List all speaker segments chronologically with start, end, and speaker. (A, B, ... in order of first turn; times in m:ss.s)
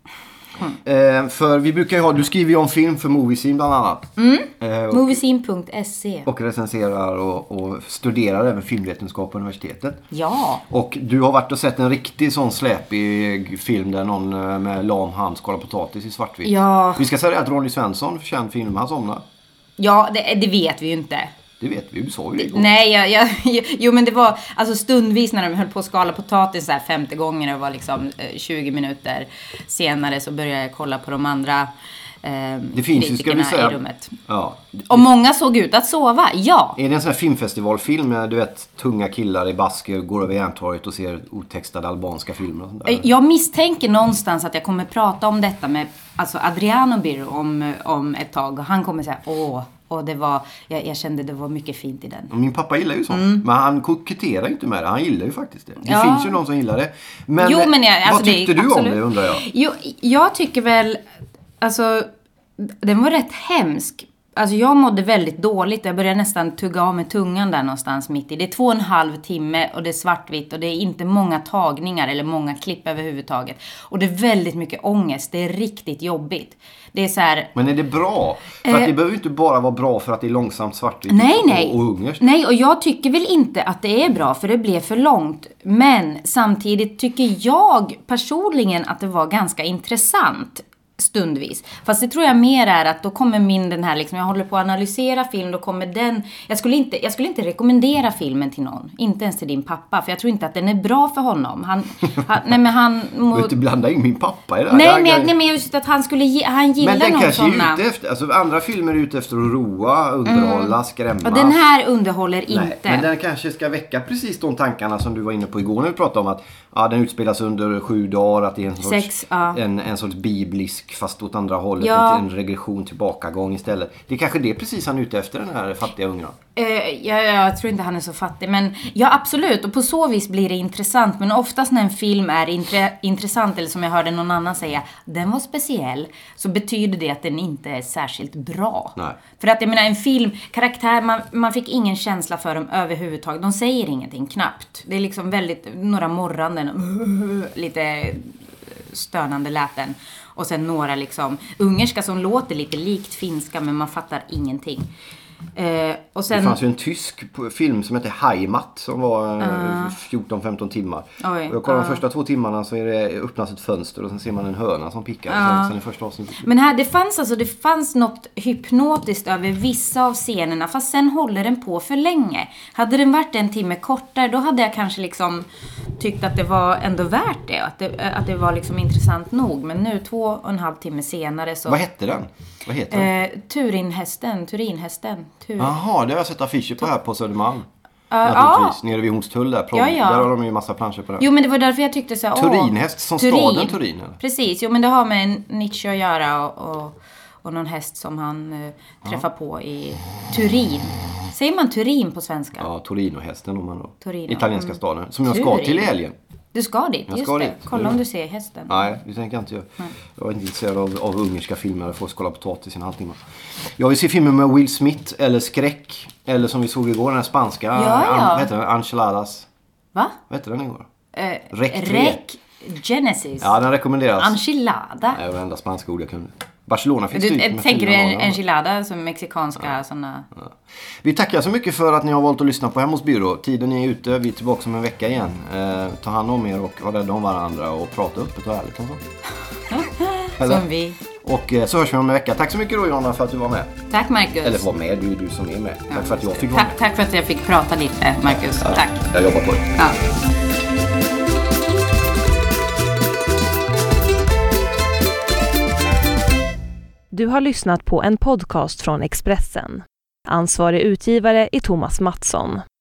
0:00.7-0:05.2 A
0:04.2-0:06.3 B
0:06.2-0:10.0 A
0:10.1-0:10.6 B
0:10.7-0:19.2 A
0:16.4-0:17.0 B
0:19.8-0:21.3 B
0:21.6-0:22.7 A
0:22.4-0:31.7 B
0:32.2-0:34.2 B
0:32.7-0:35.0 A
0:34.9-0:36.8 B
0:36.8-0:43.1 A
0:42.8-0:52.3 B
0:52.3-0:59.4 A
0:53.1-0:53.4 B
0:55.8-0:56.4 B
0:57.4-1:01.0 B
1:01.6-1:02.1 B
1:02.6-1:17.5 B
1:17.5-1:22.2 A
1:18.6-1:18.9 B
1:21.1-1:43.6 B
1:43.3-1:45.3 A
1:44.7-1:47.8 B
1:46.8-1:51.6 A
1:50.2-1:53.1 B
1:52.5-2:06.4 A
1:58.8-1:59.6 B
2:01.8-2:02.2 B
2:06.5-2:34.9 B
2:35.6-2:36.6 B
2:36.3-2:46.5 A
2:39.4-2:40.0 B
2:41.2-2:42.0 B
2:45.3-2:45.7 B
2:46.4-2:55.4 B
2:56.0-3:01.8 B
3:01.6-3:03.1 A
3:02.9-3:05.7 B
3:05.6-3:07.6 A
3:08.1-3:08.8 B
3:08.2-3:11.3 A
3:09.7-3:10.3 B
3:11.2-3:22.7 B
3:12.3-3:14.2 A
3:22.6-3:26.1 A
3:24.0-3:25.9 B
3:26.5-3:28.9 B
3:27.1-3:28.0 A
3:28.7-3:33.2 A
3:33.8-3:39.5 A
3:37.7-3:38.5 B
3:40.3-3:40.9 A
3:41.1-3:43.5 B
3:41.5-3:42.2 A
3:43.4-3:44.4 A
3:44.2-3:45.2 B
3:45.1-3:48.4 A
3:47.1-3:50.3 B
3:51.0-3:59.0 A
3:59.7-4:01.0 B
4:00.4-4:00.7 A
4:01.2-4:03.7 A
4:03.9-4:04.6 B
4:04.4-4:06.8 A
4:05.9-4:09.1 B
4:08.6-4:09.7 A
4:17.1-4:22.6 C